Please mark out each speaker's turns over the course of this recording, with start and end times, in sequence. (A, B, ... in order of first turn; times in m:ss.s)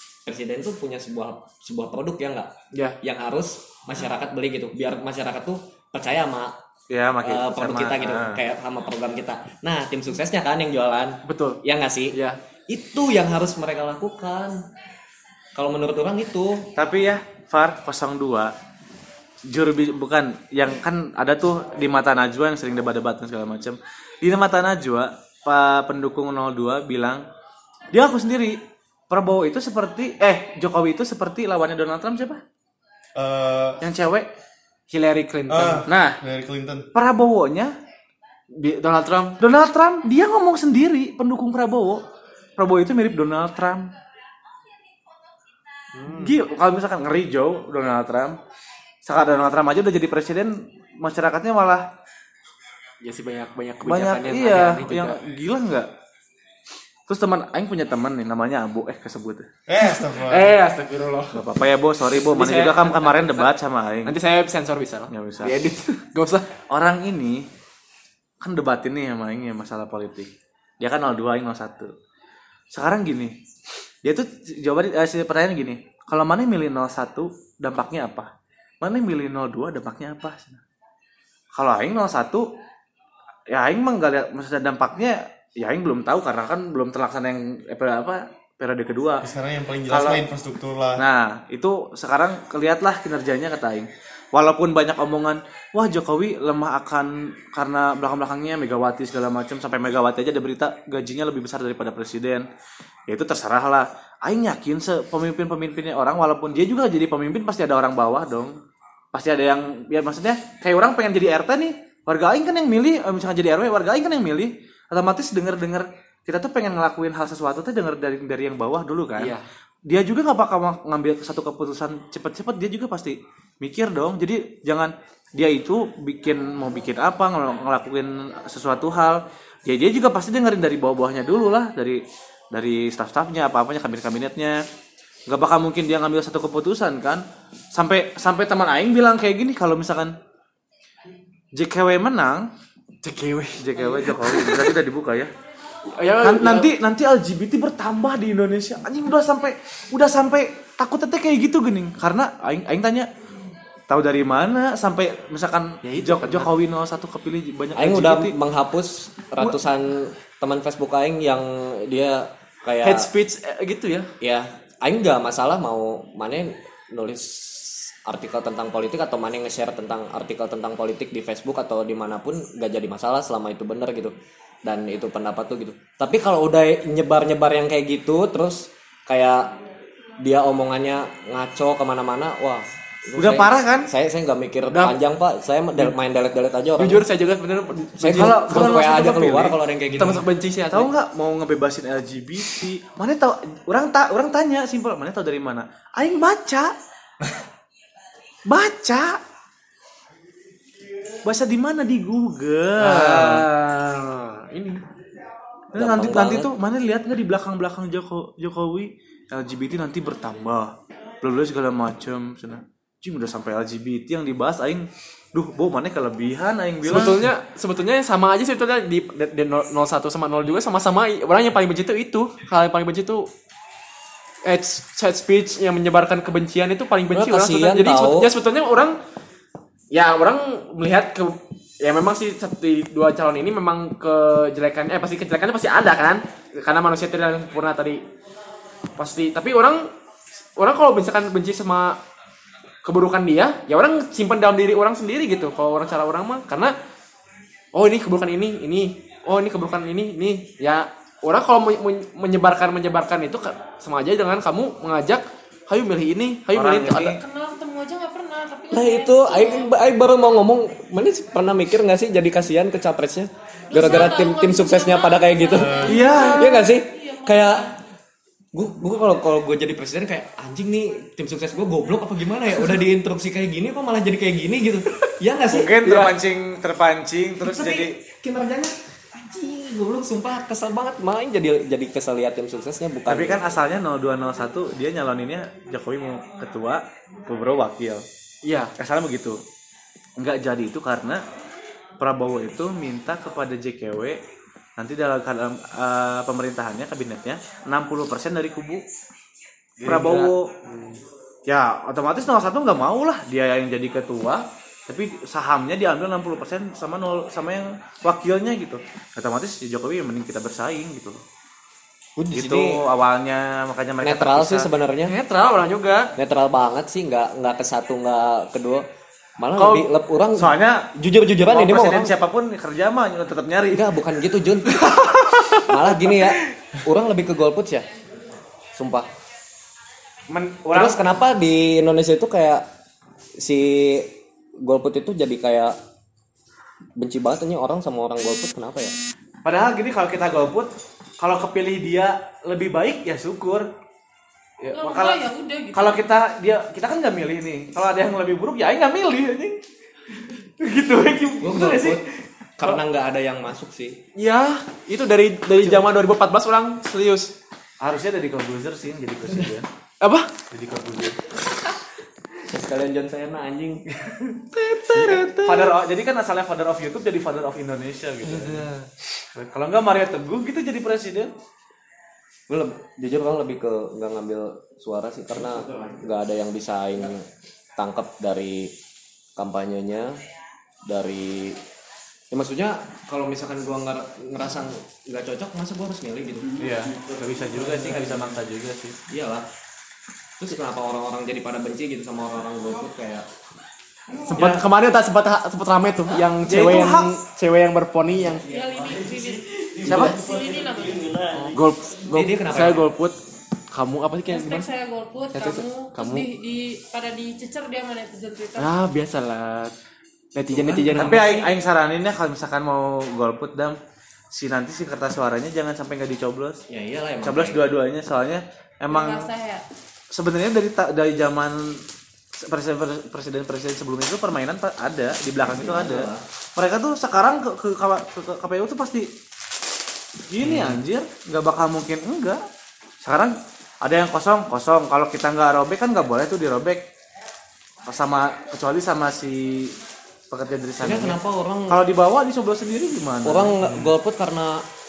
0:00.3-0:02.5 A
0:02.7-0:03.0 B
0:03.0-0:06.6 A
0:06.9-0:08.4 C
0:07.2-0:12.2 A
0:11.3-0:11.6 B
0:12.1-0:12.4 B
0:12.7-0:14.6 A
0:15.6-0:16.7 A
0:16.8-0:18.5 C
0:19.5-0:27.3 C
0:27.9-0:28.6 C
0:29.1-0:32.4 C
0:33.2-0:33.8 D
0:33.8-0:34.3 C
0:34.9-0:35.9 B
0:35.5-0:36.9 D
0:35.9-0:36.2 C
0:36.9-0:37.7 C
0:38.5-0:39.4 B
0:39.4-0:42.0 C
0:42.6-0:43.9 C
0:46.0-0:46.3 B
0:46.2-0:48.4 C
0:49.1-0:51.8 C
0:53.0-0:55.2 B
0:53.8-0:55.9 C
0:57.1-0:59.5 C
0:59.7-1:00.6 D
0:59.8-1:01.4 B
1:01.3-1:04.2 C
1:02.1-1:03.5 B
1:04.0-1:06.5 B
1:05.1-1:05.5 C
1:06.7-1:07.5 C
1:08.4-1:11.9 C
1:12.7-1:13.4 C
1:14.0-1:18.3 C
1:18.8-1:20.6 C
1:21.6-1:22.5 C
1:23.5-1:29.3 C
1:29.2-1:31.0 D
1:29.9-1:30.2 C
1:31.0-1:42.5 C
1:43.1-1:48.6 C
1:49.1-1:59.3 C
1:59.2-1:59.4 B
1:59.9-2:12.0 C
2:12.5-2:14.6 C
2:15.3-2:17.2 C
2:17.8-2:20.1 C
2:21.6-2:22.5 C
2:23.0-2:24.7 B
2:23.6-2:25.3 C
2:25.9-2:26.7 B
2:26.2-2:33.1 C
2:33.9-2:38.3 C
2:35.8-2:36.5 B
2:37.8-2:43.1 A
2:42.8-2:44.1 B
2:44.2-2:59.6 A
3:00.2-3:07.0 A
3:03.2-3:03.9 C
3:04.7-3:05.0 B
3:06.8-3:08.8 B
3:08.0-3:10.3 A
3:08.2-3:09.6 C
3:10.0-3:10.9 B
3:10.7-3:16.7 C
3:18.5-3:19.2 C
3:21.2-3:23.5 C
3:22.8-3:24.8 B
3:25.7-3:37.2 C
3:25.8-3:26.5 A
3:36.9-3:43.3 B
3:44.5-3:49.0 B
3:47.1-3:48.3 A
3:49.9-3:58.0 B
3:59.0-3:59.9 B
4:00.6-4:02.0 B
4:02.8-4:06.7 B
4:07.7-4:17.1 B
4:16.5-4:17.2 C
4:17.0-4:19.8 E
4:18.7-4:27.6 A
4:23.7-4:27.8 E
4:25.8-4:26.6 C
4:28.5-4:36.1 A
4:35.5-4:37.9 C
4:37.4-4:43.5 A
4:43.1-4:48.0 C
4:48.4-4:48.7 B
4:48.8-4:49.4 C
4:50.2-4:51.2 C
4:52.0-4:54.2 C
4:54.8-4:58.8 C
4:59.8-5:00.5 C
4:59.8-5:00.9 B
5:01.5-5:11.2 C
5:12.2-5:12.8 A
5:12.3-5:14.7 C
5:14.0-5:15.2 A
5:15.1-5:16.1 B
5:16.2-5:18.9 A
5:19.4-5:22.1 A
5:19.6-5:19.9 B
5:20.4-5:20.9 C
5:21.4-5:23.9 C
5:23.7-5:25.0 A
5:25.5-5:27.9 A
5:28.8-5:29.1 A
5:30.3-5:31.0 C
5:30.7-5:32.7 A
5:33.4-5:35.8 A
5:37.0-5:39.0 A
5:39.4-5:43.7 C
5:44.6-5:45.2 C
5:44.7-5:46.0 E
5:45.7-5:49.6 C
5:50.6-5:52.0 C
5:51.4-5:52.0 A
5:52.6-5:54.0 A
5:54.2-5:57.3 B
5:57.8-5:59.7 C
6:00.0-6:00.3 B
6:00.5-6:01.2 C
6:02.4-6:05.4 A
6:04.9-6:05.7 B
6:05.0-6:11.3 C
6:08.3-6:08.7 A
6:12.5-6:18.7 A
6:19.4-6:20.2 A
6:20.8-6:21.6 A
6:22.3-6:26.6 A
6:26.6-6:29.0 C
6:29.1-6:29.5 A
6:30.4-6:33.3 A
6:34.3-6:34.6 C
6:34.3-6:38.5 B
6:36.5-6:37.1 C
6:38.4-6:41.3 E
6:39.8-6:40.2 C
6:41.5-6:43.2 B
6:42.1-6:42.9 A
6:43.7-6:44.7 B
6:44.3-6:48.7 E
6:45.3-6:46.3 B
6:48.6-6:49.7 B
6:50.4-6:51.2 B
6:50.5-6:51.3 A
6:51.0-6:53.8 C
6:54.3-6:56.6 C
6:56.7-6:57.6 A
6:57.2-6:59.3 C
6:58.9-6:59.6 E
7:00.1-7:01.8 C
7:02.4-7:09.1 C
7:05.4-7:06.3 A
7:10.3-7:12.4 C
7:10.4-7:10.8 A
7:13.0-7:16.8 C
7:17.9-7:19.8 C
7:20.3-7:23.6 C
7:20.8-7:21.8 A
7:23.2-7:24.6 A
7:23.6-7:23.9 D